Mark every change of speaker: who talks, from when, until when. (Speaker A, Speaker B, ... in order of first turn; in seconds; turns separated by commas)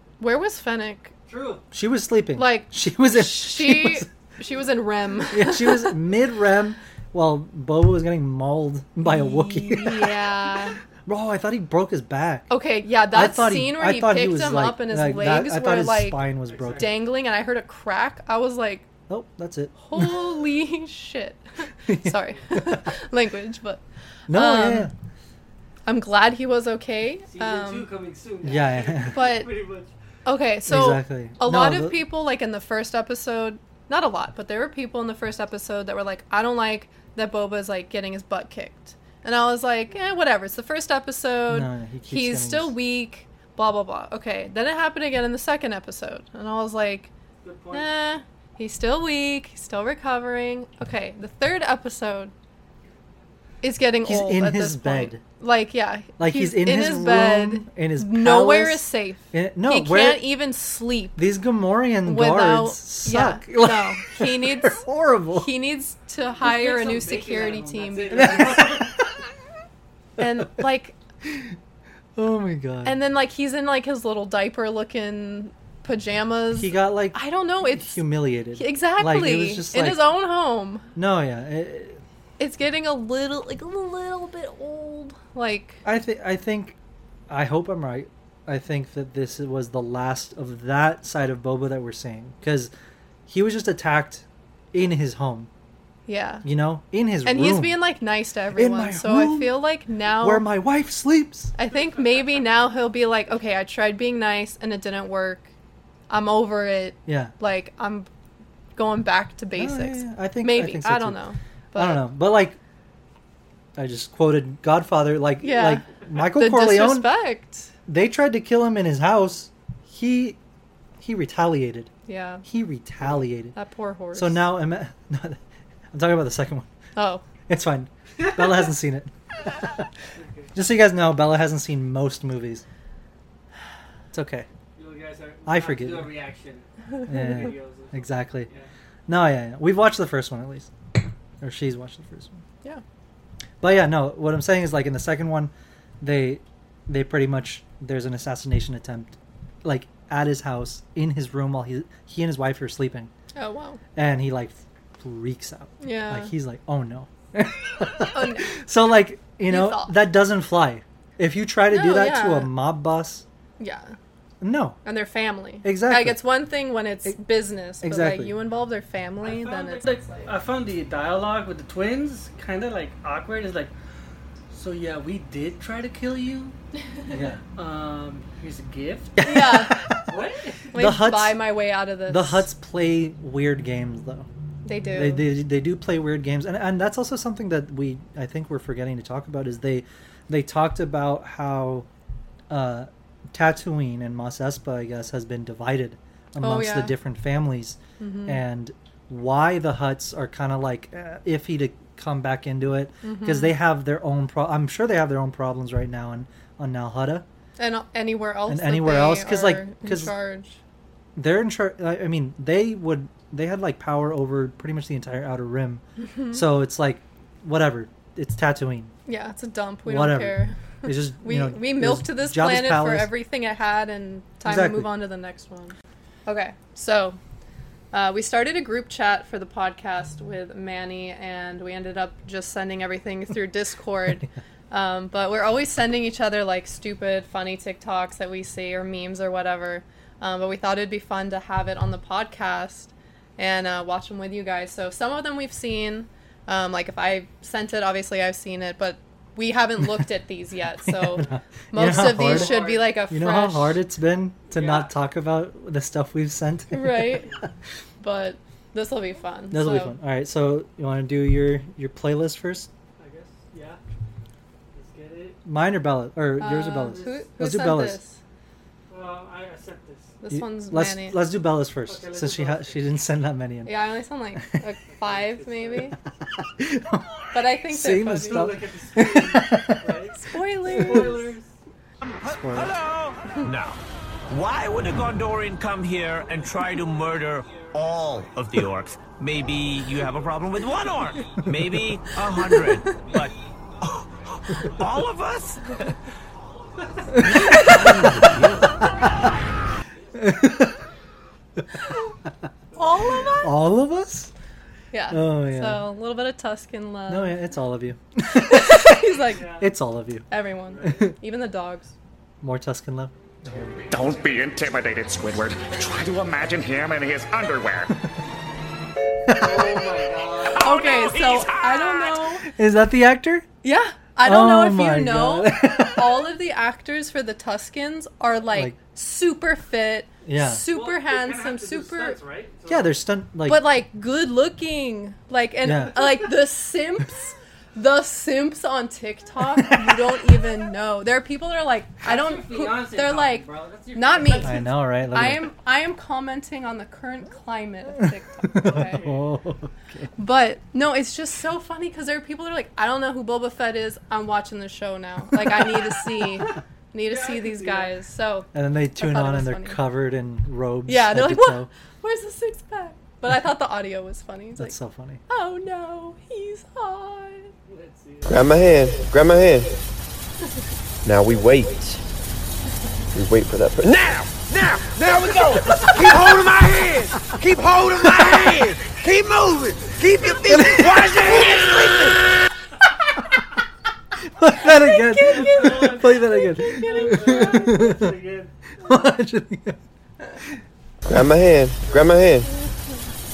Speaker A: 0.2-1.1, Speaker B: 1.3-1.6, Speaker C: 1.7-4.1, Speaker A: 2.4-6.0, Speaker C: 5.3-10.2, Speaker A: 9.0-10.8, Speaker C: 11.1-12.5, Speaker A: 12.5-18.9, Speaker C: 13.0-17.0, Speaker B: 16.4-16.9, Speaker C: 19.1-20.1, Speaker A: 19.8-24.9, Speaker C: 21.9-22.9, Speaker C: 24.3-24.9, Speaker A: 25.9-27.9, Speaker B: 27.3-29.9, Speaker C: 28.4-29.2, Speaker A: 29.1-29.5, Speaker A: 30.2-47.1, Speaker C: 30.6-32.0, Speaker C: 41.5-42.7, Speaker B: 47.4-47.9, Speaker A: 47.7-52.3, Speaker A: 53.6-61.2, Speaker C: 54.0-55.2, Speaker C: 56.2-60.2, Speaker C: 61.2-65.5, Speaker A: 62.0-64.8, Speaker A: 65.3-68.8, Speaker B: 66.4-69.0, Speaker C: 68.1-69.1, Speaker A: 70.2-71.0, Speaker C: 71.2-71.5, Speaker C: 72.2-73.0, Speaker A: 72.8-80.9, Speaker C: 76.5-80.0, Speaker C: 81.0-82.0, Speaker A: 82.4-85.8, Speaker C: 85.8-86.8, Speaker C: 87.3-92.7, Speaker C: 93.3-95.5, Speaker A: 96.1-96.5, Speaker C: 96.4-97.8, Speaker A: 97.2-100.5, Speaker C: 98.5-101.5, Speaker A: 101.5-105.5, Speaker A: 106.1-108.1, Speaker C: 107.0-107.3, Speaker A: 108.8-112.0, Speaker C: 109.5-111.2, Speaker C: 111.7-112.6, Speaker C: 113.8-117.1, Speaker A: 115.4-117.7, Speaker C: 117.9-120.4, Speaker C: 121.0-121.9, Speaker A: 122.1-122.4, Speaker C: 122.4-123.5, Speaker A: 123.5-124.5, Speaker C: 124.1-125.4, Speaker C: 125.9-126.7, Speaker A: 127.0-127.2, Speaker C: 127.5-129.9, Speaker B: 130.1-130.5, Speaker C: 130.5-132.6, Speaker C: 134.1-134.5, Speaker B: 134.8-138.7, Speaker C: 135.4-136.1, Speaker C: 137.1-138.5, Speaker C: 139.1-140.7, Speaker C: 141.4-142.4, Speaker C: 143.6-153.1, Speaker A: 153.3-153.8, Speaker C: 153.9-163.2, Speaker A: 155.8-156.3, Speaker A: 158.1-158.6, Speaker A: 159.5-159.9, Speaker A: 161.7-162.5, Speaker A: 163.6-163.9, Speaker C: 164.4-164.8, Speaker A: 164.8-170.3, Speaker C: 165.6-166.2, Speaker C: 167.8-168.3, Speaker B: 169.2-173.7, Speaker B: 174.5-176.5, Speaker C: 177.1-177.4, Speaker B: 177.6-179.2, Speaker C: 179.2-180.2, Speaker A: 179.2-179.8, Speaker B: 180.1-180.7, Speaker A: 180.7-182.5, Speaker C: 180.7-184.3, Speaker A: 184.6-185.3, Speaker C: 184.9-191.9, Speaker C: 192.5-207.2, Speaker A: 196.4-196.9, Speaker A: 198.0-198.4, Speaker A: 203.0-203.5, Speaker A: 207.6-210.6, Speaker C: 208.5-210.1, Speaker C: 211.2-218.9, Speaker A: 216.0-216.4, Speaker A: 219.1-225.7, Speaker C: 219.8-223.1, Speaker C: 224.4-224.9, Speaker A: 226.2-227.2, Speaker A: 227.9-253.8, Speaker C: 250.8-257.3, Speaker B: 251.8-252.9, Speaker B: 254.5-254.9, Speaker A: 256.7-257.3, Speaker A: 258.0-259.9, Speaker C: 259.5-262.7, Speaker B: 263.0-263.8, Speaker B: 264.7-265.4, Speaker C: 265.4-268.0, Speaker A: 266.4-268.2, Speaker B: 266.8-267.3, Speaker B: 268.9-270.1, Speaker A: 270.2-271.2, Speaker C: 270.3-274.4, Speaker B: 271.9-272.8, Speaker A: 273.6-275.9, Speaker B: 275.0-275.9, Speaker C: 276.3-280.0, Speaker A: 277.3-278.5, Speaker B: 278.2-281.5, Speaker A: 280.1-281.3, Speaker C: 280.7-281.1, Speaker D: 282.1-295.8, Speaker C: 282.2-282.7, Speaker C: 297.2-298.4, Speaker D: 297.2-298.8, Speaker A: 297.5-297.8, Speaker C: 300.1-300.8, Speaker B: 302.7-303.3, Speaker A: 302.8-303.5, Speaker C: 303.4-304.3, Speaker A: 304.9-307.4, Speaker C: 305.1-305.8, Speaker C: 307.1-310.2, Speaker A: 308.3-309.5, Speaker B: 309.3-309.7, Speaker A: 310.3-311.9, Speaker B: 310.7-311.0, Speaker C: 310.8-311.1, Speaker C: 312.4-313.9, Speaker E: 313.9-317.9, Speaker C: 319.2-319.9, Speaker B: 319.3-320.7, Speaker E: 320.5-322.2, Speaker A: 320.5-322.5, Speaker C: 322.5-323.5, Speaker A: 323.6-332.2, Speaker C: 324.2-326.3, Speaker C: 330.2-330.6, Speaker B: 330.7-332.9, Speaker C: 332.7-333.7, Speaker A: 333.4-349.0, Speaker C: 335.6-336.2, Speaker C: 339.6-340.1, Speaker B: 342.0-344.7, Speaker C: 344.4-345.5, Speaker C: 348.5-350.1, Speaker B: 348.6-349.3, Speaker A: 350.2-359.8, Speaker B: 357.0-357.9, Speaker C: 358.5-361.7, Speaker A: 360.9-364.8, Speaker C: 364.6-365.2, Speaker A: 365.3-367.5, Speaker B: 367.6-368.6, Speaker F: 368.2-369.7, Speaker F: 371.0-372.0, Speaker F: 373.1-382.2, Speaker C: 380.4-381.1, Speaker C: 384.2-388.2, Speaker A: 384.6-387.5, Speaker B: 385.3-388.5, Speaker C: 388.8-389.8, Speaker F: 391.1-392.5